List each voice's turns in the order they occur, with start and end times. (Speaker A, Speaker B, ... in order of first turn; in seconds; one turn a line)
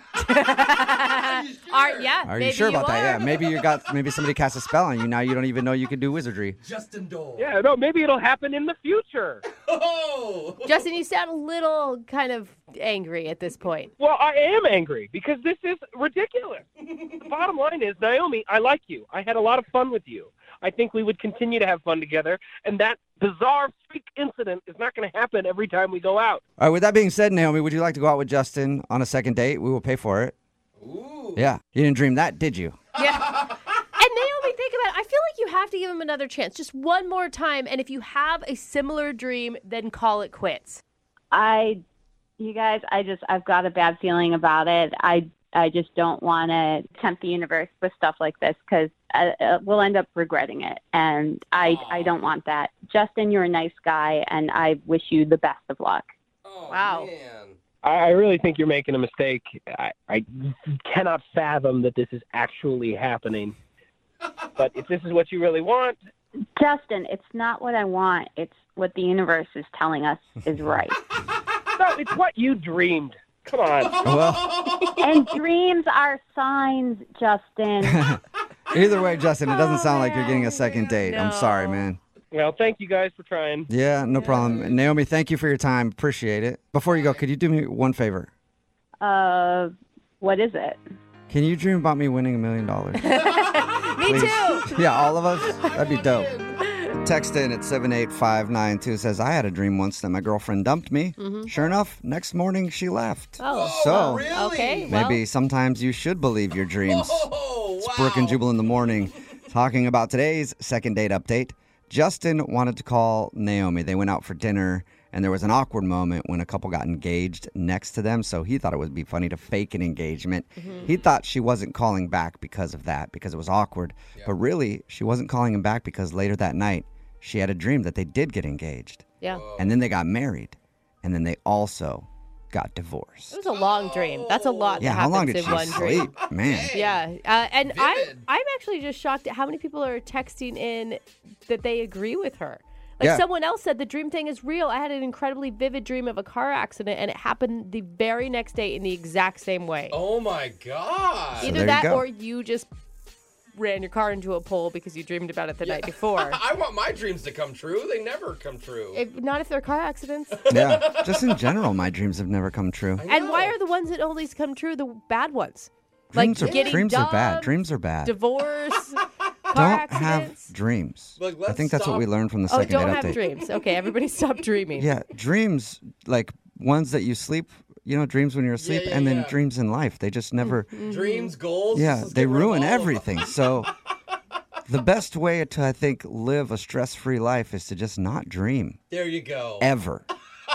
Speaker A: 0.1-3.2
Speaker B: 1.0-2.2
Speaker C: 2.3-6.6
Speaker B: 6.6-7.5
Speaker D: 7.4-9.4
Speaker B: 9.5-10.8
Speaker A: 10.6-13.9
Speaker D: 14.0-16.6
Speaker D: 17.2-26.4
Speaker C: 26.6-30.4
Speaker B: 30.8-31.5
Speaker C: 31.4-32.8
Speaker A: 33.0-40.8
Speaker E: 41.3-41.8
Speaker E: 42.4-56.0
Speaker B: 51.5-52.3
Speaker B: 56.4-57.6
Speaker A: 56.7-57.1
Speaker D: 57.8-63.5
Speaker D: 64.6-66.0
Speaker E: 66.6-71.0
Speaker D: 71.8-74.0
Speaker B: 73.9-75.2
Speaker C: 74.0-74.6
Speaker E: 75.0-78.0
Speaker C: 77.9-78.2
Speaker C: 78.7-82.0
Speaker A: 79.4-81.9
Speaker D: 82.3-83.7
Speaker C: 83.7-88.3
Speaker A: 84.2-84.5
Speaker B: 84.3-84.8
Speaker B: 86.9-87.2
Speaker E: 89.0-90.8
Speaker C: 91.3-93.2
Speaker A: 93.0-94.7
Speaker B: 93.3-93.6
Speaker C: 94.0-96.3
Speaker B: 95.3-96.6
Speaker C: 96.9-104.3
Speaker A: 101.2-101.5
Speaker B: 101.5-101.8
Speaker A: 103.4-105.2
Speaker B: 103.4-104.9
Speaker C: 104.9-129.0
Speaker B: 106.8-108.4
Speaker A: 120.6-120.9
Speaker B: 120.8-121.1
Speaker B: 129.3-129.8
Speaker C: 129.6-133.3
Speaker A: 133.3-136.1
Speaker B: 133.4-135.0
Speaker C: 134.8-136.8
Speaker B: 135.6-137.0
Speaker A: 136.7-150.0
Speaker B: 137.6-138.3
Speaker B: 149.9-151.6
Speaker C: 151.4-152.1
Speaker A: 151.4-152.7
Speaker A: 153.5-156.4
Speaker B: 155.6-159.0
Speaker A: 158.9-160.4
Speaker B: 160.3-161.5
Speaker C: 160.5-163.0
Speaker B: 163.0-163.5
Speaker A: 163.1-170.5
Speaker C: 166.1-168.1
Speaker B: 166.3-166.8
Speaker C: 169.5-173.2
Speaker B: 171.2-172.1
Speaker A: 172.5-174.9
Speaker B: 172.8-173.7
Speaker C: 174.8-180.7
Speaker B: 178.6-179.4
Speaker A: 180.4-181.3
Speaker B: 180.8-183.3
Speaker C: 181.7-183.7
Speaker C: 184.7-188.8
Speaker B: 188.9-189.7
Speaker C: 189.6-190.0